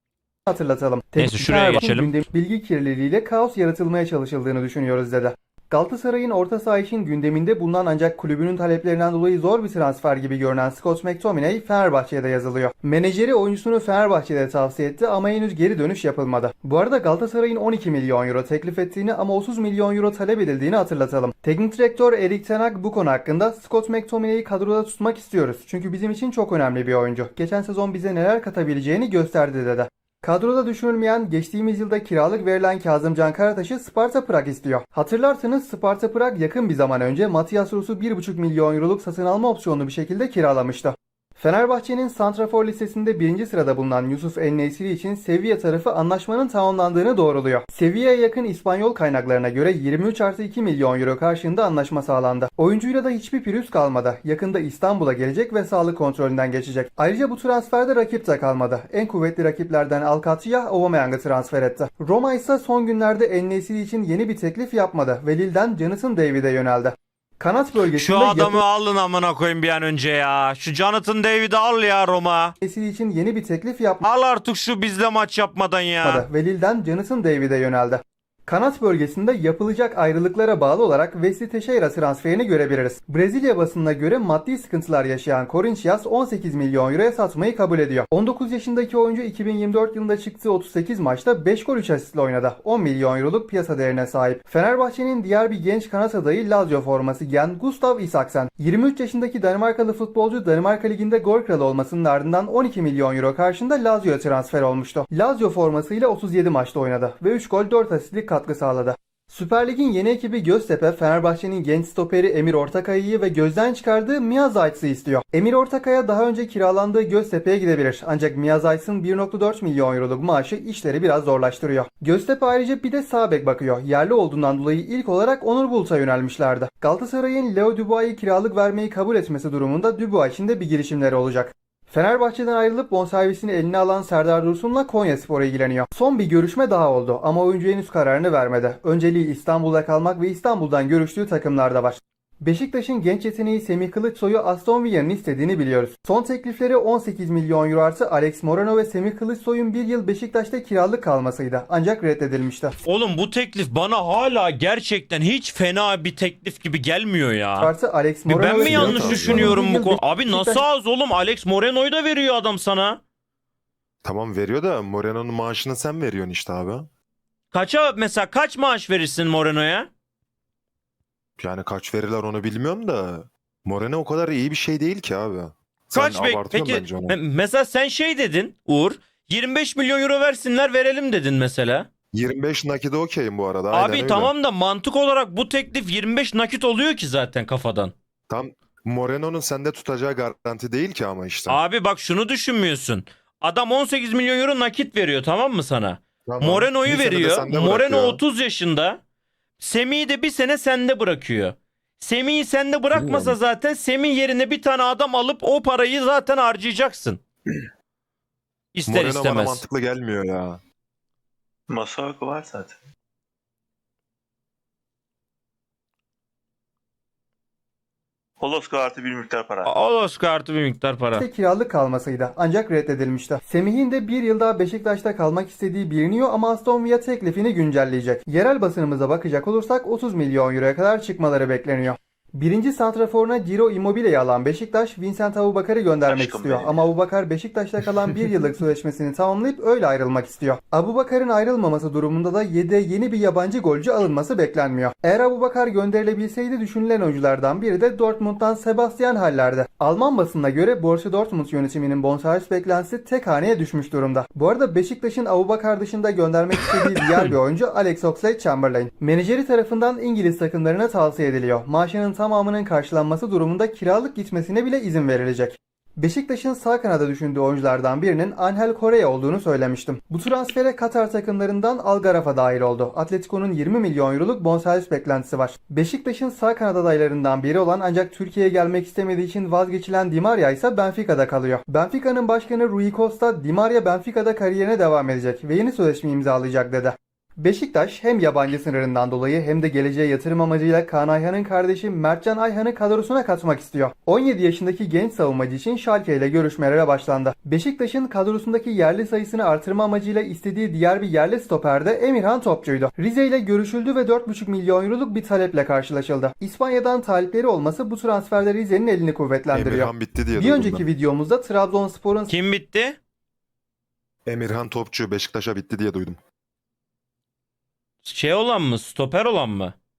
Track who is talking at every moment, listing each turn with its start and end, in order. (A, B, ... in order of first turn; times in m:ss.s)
0:00.5-1:08.6 A
0:01.2-0:02.1 B
1:08.0-1:12.5 B
1:12.6-1:14.0 A
1:14.0-1:16.3 B
1:16.0-2:32.8 A
2:32.8-2:37.7 B
2:37.6-2:40.6 A
2:38.3-2:43.0 B
2:38.6-2:39.6 C
2:44.0-2:46.9 C
2:47.5-2:49.9 B
2:51.4-2:57.2 C
2:55.9-3:01.9 B
3:02.1-3:04.3 C
3:03.7-3:07.9 B
3:08.3-3:11.6 C
3:11.5-3:19.0 B
3:16.2-3:18.2 C
3:19.6-3:27.2 B
3:22.9-3:23.4 C
3:28.7-3:29.6 B
3:28.9-3:30.6 C
3:31.7-3:32.8 D
3:38.4-3:39.7 D
3:39.6-3:41.2 B
3:41.1-5:12.3 A
3:56.1-3:56.9 D
4:16.6-4:17.3 B
5:09.5-5:10.9 C
5:12.3-5:13.0 B
5:14.2-5:16.2 C
5:18.0-5:19.7 B